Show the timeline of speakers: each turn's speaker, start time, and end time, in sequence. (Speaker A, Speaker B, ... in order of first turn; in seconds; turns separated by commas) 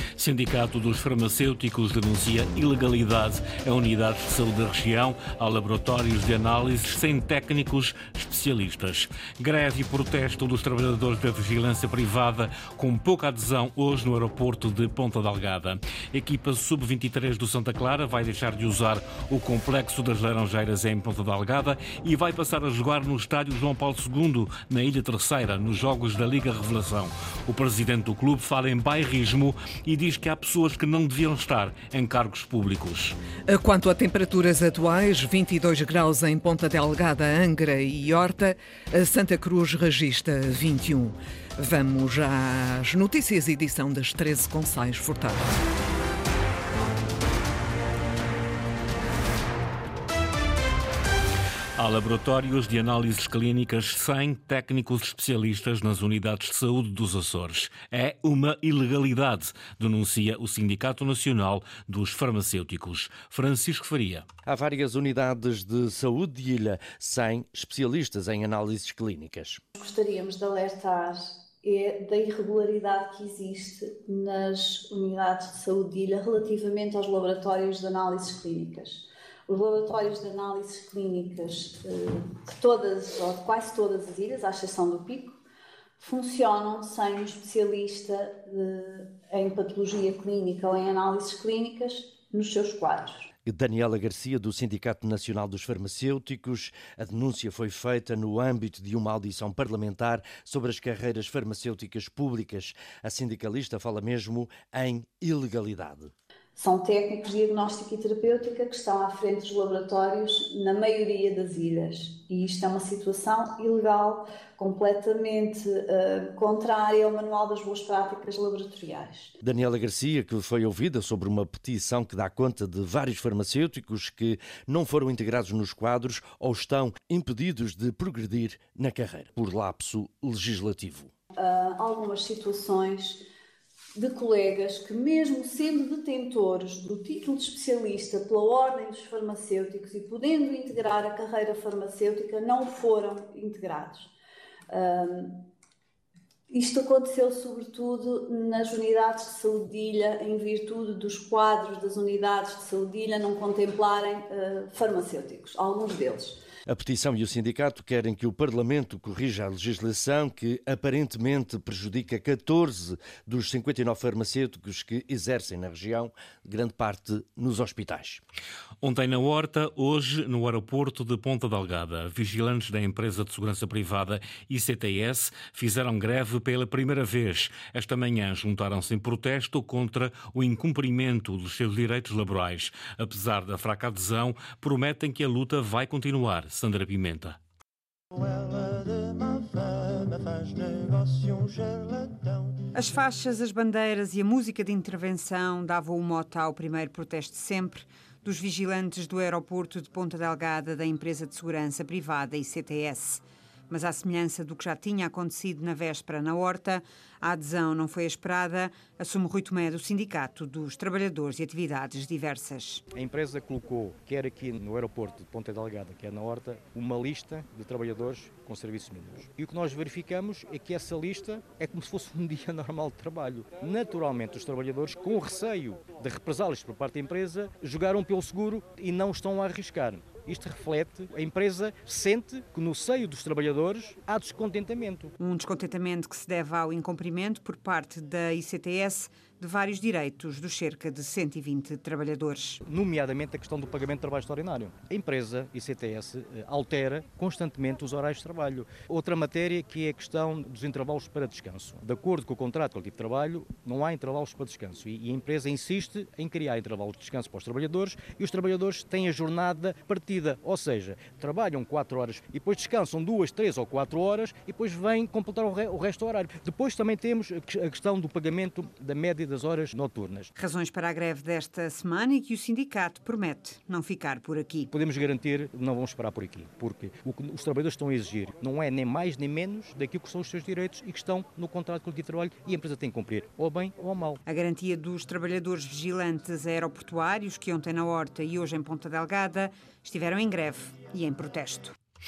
Speaker A: 0.2-33.2, Speaker B: 33.5-45.5, Speaker A: 51.8-64.3, Speaker C: 64.5-69.6, Speaker D: 69.8-85.4, Speaker D: 86.0-93.3, Speaker C: 93.5-106.1, Speaker D: 106.6-119.3, Speaker C: 119.4-131.1, Speaker D: 131.3-133.2, Speaker D: 134.0-144.1, Speaker D: 144.7-145.5, Speaker D: 146.5-156.4, Speaker C: 156.7-168.2, Speaker A: 168.8-187.4, Speaker E: 192.7-212.8, Speaker F: 213.0-235.1, Speaker E: 235.2-242.6, Speaker F: 242.7-270.3, Speaker E: 270.4-274.7, Speaker F: 274.7-284.2, Speaker E: 284.3-291.8